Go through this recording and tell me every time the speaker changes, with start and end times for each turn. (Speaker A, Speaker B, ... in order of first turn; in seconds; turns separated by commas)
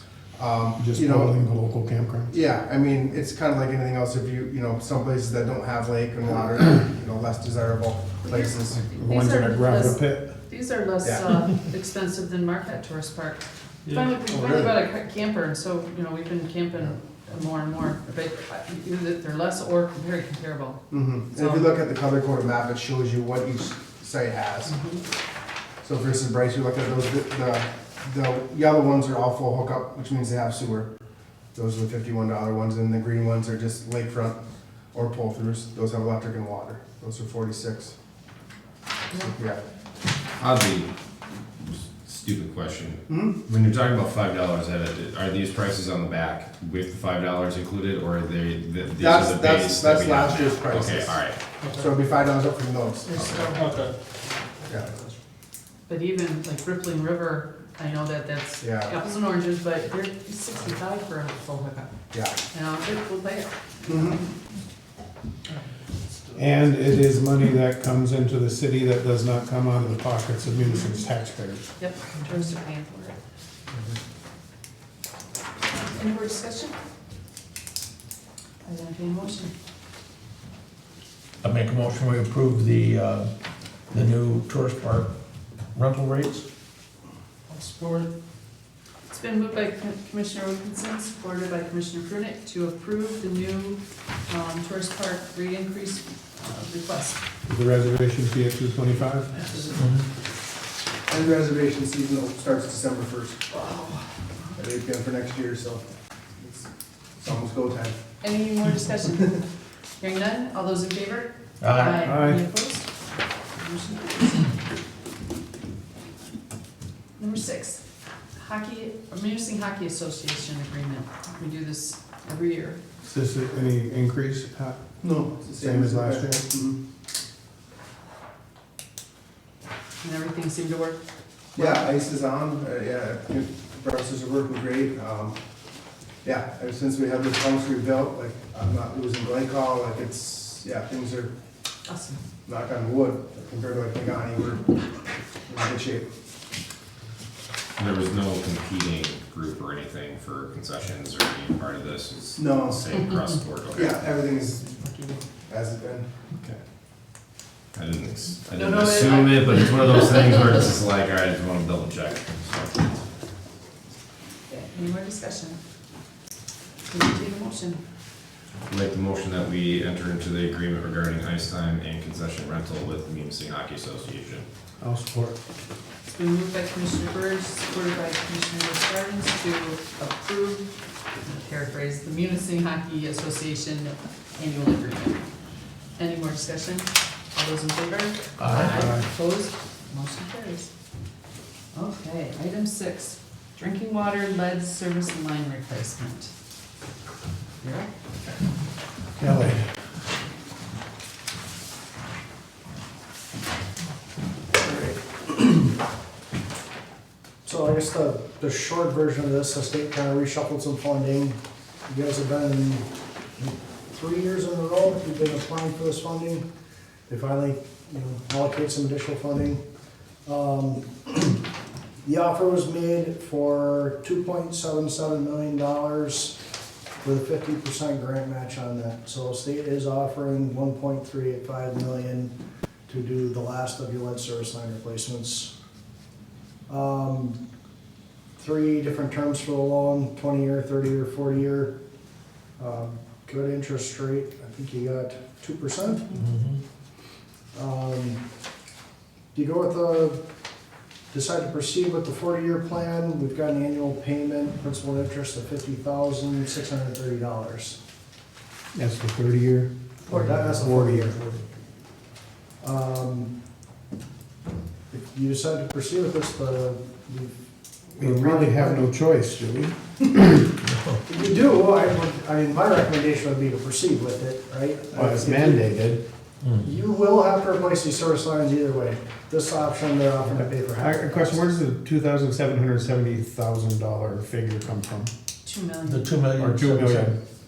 Speaker A: 0.3-1.3, Speaker B: 0.8-2.3, Speaker A: 2.3-8.8, Speaker C: 8.2-21.7, Speaker B: 8.9-10.3, Speaker A: 11.0-11.3, Speaker A: 14.2-14.8, Speaker A: 20.9-24.7, Speaker C: 24.6-25.0, Speaker A: 25.8-30.9, Speaker A: 31.5-34.4, Speaker A: 34.9-37.9, Speaker A: 39.1-39.6, Speaker D: 40.4-40.9, Speaker D: 41.6-51.4, Speaker A: 43.1-43.4, Speaker A: 49.0-53.5, Speaker C: 53.0-53.7, Speaker D: 53.1-53.5, Speaker A: 54.7-54.9, Speaker C: 55.9-61.9, Speaker A: 58.6-59.0, Speaker A: 62.1-62.4, Speaker C: 62.5-64.2, Speaker A: 63.9-64.2, Speaker B: 66.3-71.7, Speaker C: 71.8-73.2, Speaker C: 75.7-76.7, Speaker C: 78.6-79.5, Speaker E: 81.4-83.3, Speaker E: 83.9-85.1, Speaker E: 85.7-86.5, Speaker E: 87.6-88.0, Speaker C: 89.1-97.2, Speaker B: 97.5-99.3, Speaker C: 99.3-99.9, Speaker E: 99.7-100.0, Speaker A: 101.1-103.4, Speaker A: 104.5-105.9, Speaker A: 106.4-106.6, Speaker A: 107.2-108.0, Speaker C: 108.2-109.4, Speaker C: 110.0-112.9, Speaker E: 111.6-112.3, Speaker B: 112.0-112.4, Speaker C: 113.6-114.5, Speaker C: 117.2-117.8, Speaker C: 118.4-122.8, Speaker B: 123.0-124.8, Speaker A: 125.0-126.8, Speaker B: 125.4-126.5, Speaker C: 130.0-131.0, Speaker C: 131.5-131.9, Speaker A: 131.5-135.4, Speaker A: 136.2-141.3, Speaker C: 141.8-142.2, Speaker A: 142.4-144.7, Speaker A: 145.5-146.1, Speaker D: 147.8-153.9, Speaker A: 152.3-152.9, Speaker A: 153.7-154.7, Speaker C: 154.6-155.2, Speaker A: 155.5-156.1, Speaker D: 157.7-162.9, Speaker C: 158.5-159.8, Speaker C: 164.5-165.6, Speaker C: 166.9-167.8, Speaker D: 168.7-174.4, Speaker B: 174.8-175.4, Speaker C: 176.1-185.2, Speaker C: 186.0-190.7, Speaker E: 188.4-189.0, Speaker B: 188.7-189.0, Speaker C: 191.7-196.3, Speaker C: 197.6-197.9, Speaker B: 199.2-199.7, Speaker F: 204.6-205.5, Speaker F: 207.4-212.9, Speaker F: 213.4-216.4, Speaker F: 217.1-219.6, Speaker F: 220.2-221.4, Speaker F: 222.0-226.3, Speaker F: 227.0-232.3, Speaker F: 232.9-235.5, Speaker F: 236.7-237.4, Speaker F: 238.4-241.7, Speaker F: 242.6-246.2, Speaker E: 246.1-246.6, Speaker F: 247.5-248.2, Speaker F: 249.3-250.2, Speaker F: 251.1-257.8, Speaker B: 258.7-261.4, Speaker F: 260.1-261.2, Speaker F: 262.6-263.3, Speaker F: 264.9-267.3, Speaker F: 267.9-268.9, Speaker B: 268.0-270.4, Speaker E: 270.7-271.0, Speaker F: 271.0-275.7, Speaker B: 274.9-276.0, Speaker F: 276.6-281.4, Speaker B: 280.3-285.1, Speaker C: 285.4-286.1, Speaker E: 285.8-287.1, Speaker B: 286.4-287.2